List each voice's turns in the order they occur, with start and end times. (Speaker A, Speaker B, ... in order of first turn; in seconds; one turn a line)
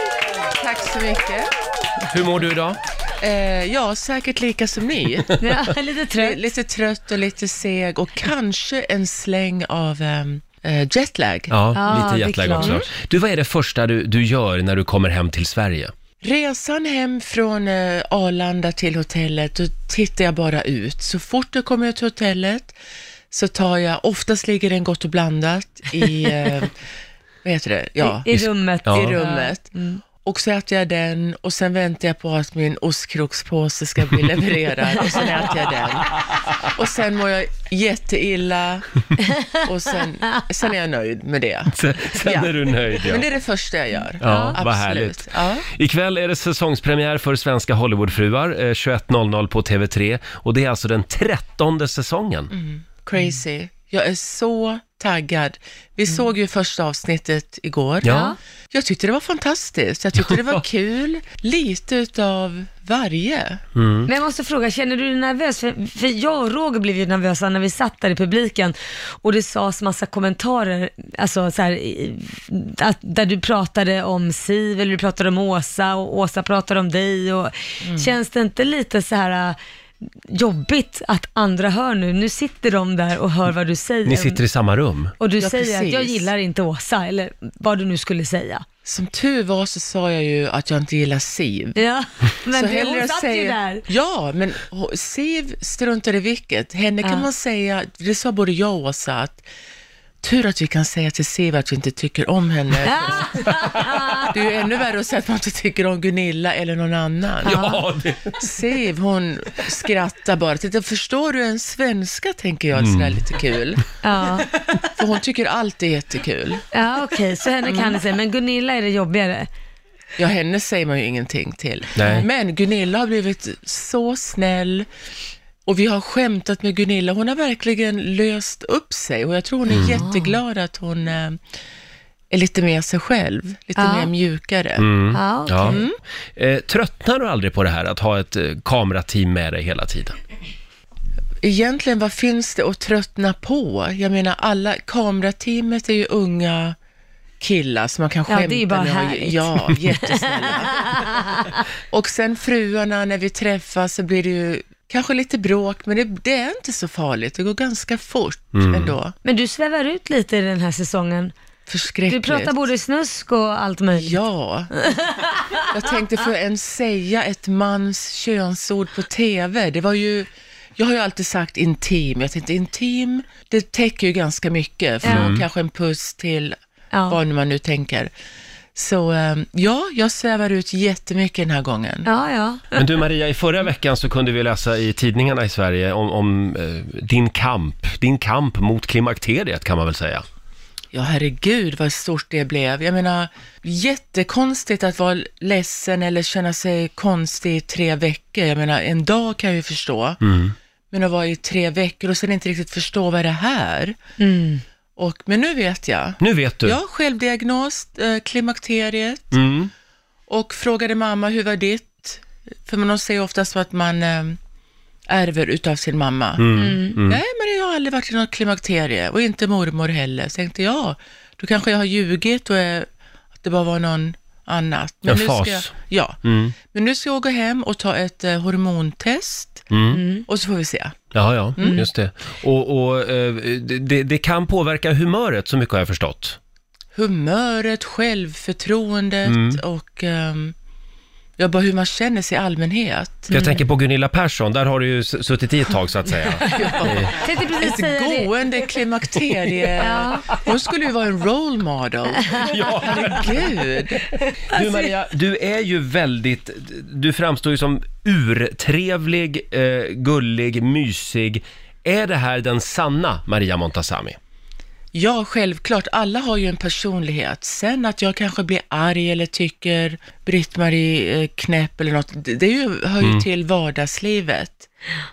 Speaker A: 0.5-1.5
Speaker B: 2.1-2.8
Speaker A: 3.2-5.3
Speaker C: 5.4-6.4
Speaker A: 6.2-11.5
Speaker B: 11.5-15.9
Speaker C: 11.7-12.8
Speaker A: 12.6-12.9
Speaker A: 16.2-22.8
Speaker A: 23.3-26.7
Speaker C: 26.0-26.5
Speaker A: 27.4-28.3
Speaker C: 28.0-30.0
Speaker B: 28.3-29.2
Speaker A: 28.9-29.7
Speaker A: 30.2-38.9
Speaker A: 39.5-45.6
Speaker B: 41.7-43.3
Speaker B: 44.2-52.5
Speaker C: 44.2-44.6
Speaker A: 52.5-63.6
Speaker B: 58.0-58.3
Speaker C: 58.0-58.4
Speaker B: 63.8-64.1
Speaker C: 64.1-79.6
Speaker A: 77.8-78.1
Speaker C: 80.3-84.4
Speaker B: 84.1-85.1
Speaker C: 85.2-88.6
Speaker A: 85.4-86.3
Speaker A: 88.8-91.8
Speaker C: 91.8-93.9
Speaker A: 92.5-99.5
Speaker A: 100.2-103.5
Speaker C: 102.9-104.3
Speaker A: 104.2-107.7
Speaker B: 107.4-108.5
Speaker C: 107.5-107.8
Speaker A: 108.4-113.9
Speaker B: 112.8-113.3
Speaker C: 114.0-114.5
Speaker A: 114.8-116.7
Speaker C: 116.7-119.5
Speaker A: 117.7-118.0
Speaker A: 120.2-124.9
Speaker B: 122.0-122.3
Speaker A: 125.7-131.4
Speaker B: 129.7-130.0
Speaker C: 129.8-130.4
Speaker A: 132.3-134.8
Speaker C: 133.8-134.1
Speaker B: 134.8-135.8
Speaker C: 135.1-135.8
Speaker A: 135.7-136.0
Speaker B: 136.4-140.2
Speaker A: 141.4-146.8
Speaker A: 147.4-151.0
Speaker C: 148.3-151.6
Speaker A: 151.9-159.2
Speaker B: 158.5-158.9
Speaker C: 159.2-161.3
Speaker A: 161.7-162.6
Speaker C: 162.1-164.2
Speaker A: 163.9-164.7
Speaker C: 164.8-165.6
Speaker A: 165.7-176.6
Speaker C: 175.0-175.3
Speaker B: 175.1-175.5
Speaker C: 176.9-177.2
Speaker A: 177.1-178.1
Speaker A: 178.8-182.1
Speaker C: 182.1-182.9
Speaker B: 182.7-190.2
Speaker A: 190.9-200.2
Speaker B: 200.2-200.6
Speaker A: 200.9-204.0
Speaker C: 204.2-204.6
Speaker A: 205.0-209.4
Speaker B: 206.2-206.8
Speaker B: 209.3-209.7
Speaker A: 210.3-214.4
Speaker A: 215.1-216.4
Speaker B: 216.4-217.2
Speaker C: 216.5-217.0
Speaker A: 217.1-222.9
Speaker A: 223.4-226.2
Speaker B: 225.1-225.7
Speaker B: 226.2-226.6
Speaker A: 226.7-229.7
Speaker B: 229.7-230.0
Speaker C: 229.9-230.3
Speaker A: 230.3-231.0
Speaker B: 231.1-236.4
Speaker A: 231.6-231.9
Speaker C: 231.6-231.9
Speaker A: 236.9-240.6
Speaker B: 239.2-239.6
Speaker A: 241.4-243.3
Speaker B: 243.3-247.2
Speaker C: 243.3-243.6
Speaker A: 246.4-254.1
Speaker C: 246.5-248.7
Speaker C: 249.8-250.3
Speaker C: 252.2-252.6
Speaker B: 252.4-253.4
Speaker B: 254.5-264.2
Speaker C: 254.6-254.9
Speaker A: 264.9-274.7
Speaker B: 273.0-273.3